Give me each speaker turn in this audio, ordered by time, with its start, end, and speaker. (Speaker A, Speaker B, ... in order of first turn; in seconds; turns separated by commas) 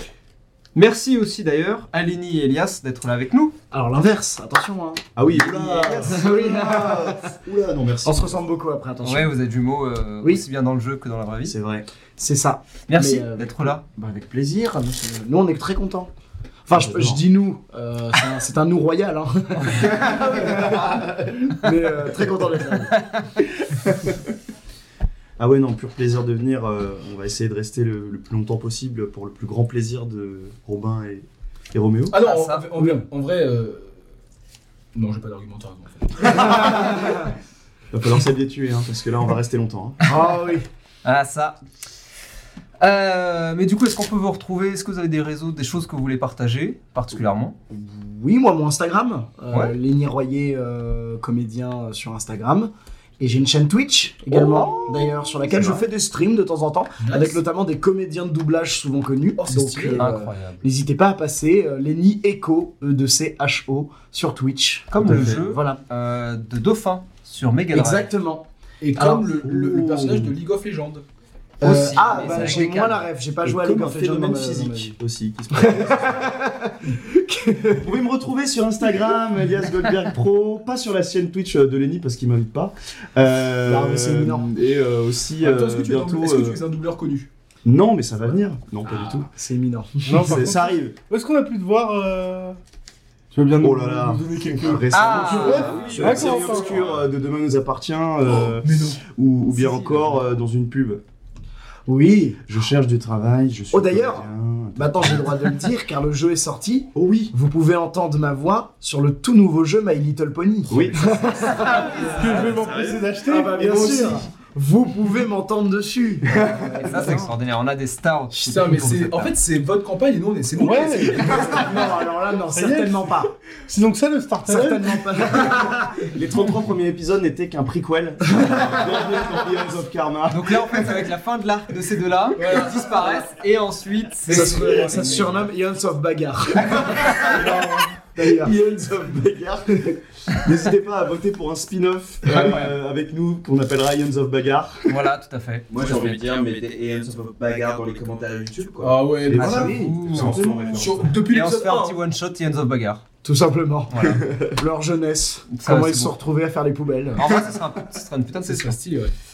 Speaker A: 0.7-3.5, Speaker B: 3.7-5.0, Speaker C: 5.2-8.4, Speaker A: 5.3-6.2, Speaker B: 6.0-7.4, Speaker B: 8.0-9.3, Speaker A: 9.0-11.6, Speaker C: 11.4-11.9, Speaker B: 12.2-16.1, Speaker A: 12.9-13.8, Speaker B: 16.7-23.0, Speaker C: 16.7-17.2, Speaker D: 17.8-18.4, Speaker C: 19.7-21.4, Speaker A: 22.9-23.3, Speaker C: 23.6-24.2, Speaker C: 25.4-32.2, Speaker D: 32.1-34.0, Speaker A: 32.2-32.6, Speaker B: 32.8-33.0, Speaker D: 34.9-36.9, Speaker C: 36.3-37.2, Speaker B: 36.4-37.3, Speaker C: 37.9-40.0, Speaker B: 40.0-40.7, Speaker A: 41.0-41.6, Speaker A: 42.8-47.5, Speaker B: 47.7-65.8, Speaker C: 54.3-55.9, Speaker D: 57.0-57.4, Speaker D: 59.4-60.1, Speaker A: 60.0-60.7, Speaker A: 64.9-68.1, Speaker C: 65.0-65.4, Speaker B: 67.7-68.5, Speaker D: 68.8-71.0, Speaker C: 69.0-70.3, Speaker B: 71.6-74.9, Speaker A: 71.6-73.0, Speaker C: 72.1-72.6, Speaker C: 73.4-76.3, Speaker B: 75.5-78.0, Speaker C: 77.7-86.6, Speaker B: 78.8-80.2, Speaker B: 83.6-84.5, Speaker D: 85.4-87.3, Speaker C: 87.6-89.3, Speaker B: 89.3-90.5, Speaker E: 90.0-92.6, Speaker C: 90.2-91.0, Speaker E: 93.3-96.8, Speaker C: 93.6-101.0, Speaker A: 94.9-96.5, Speaker F: 95.3-97.0, Speaker D: 98.3-99.0, Speaker A: 99.5-100.2, Speaker B: 101.9-102.4, Speaker C: 102.5-105.6, Speaker B: 103.7-112.6, Speaker C: 106.9-107.3, Speaker C: 110.7-113.0, Speaker F: 111.4-113.1, Speaker E: 112.0-114.0, Speaker B: 113.2-117.3, Speaker C: 113.6-114.2, Speaker C: 116.3-117.1, Speaker A: 116.3-119.3, Speaker D: 118.3-121.9, Speaker E: 120.5-121.4, Speaker B: 121.2-123.3, Speaker E: 122.5-125.2, Speaker B: 124.4-126.1, Speaker C: 126.1-130.9, Speaker B: 128.4-128.8, Speaker A: 130.3-135.5, Speaker D: 132.4-133.3, Speaker B: 134.3-138.5, Speaker A: 136.8-137.3, Speaker C: 136.8-145.0, Speaker E: 137.4-137.8, Speaker D: 142.3-142.7, Speaker A: 144.9-146.2, Speaker F: 145.7-149.1, Speaker D: 148.8-149.7, Speaker C: 149.2-151.1, Speaker B: 149.3-150.8, Speaker A: 149.4-150.4, Speaker F: 150.1-151.2, Speaker D: 150.7-152.0, Speaker A: 151.2-153.0, Speaker B: 153.2-157.2, Speaker A: 153.9-154.2, Speaker C: 154.0-154.5, Speaker A: 155.5-156.2, Speaker A: 157.2-158.8, Speaker D: 158.4-159.1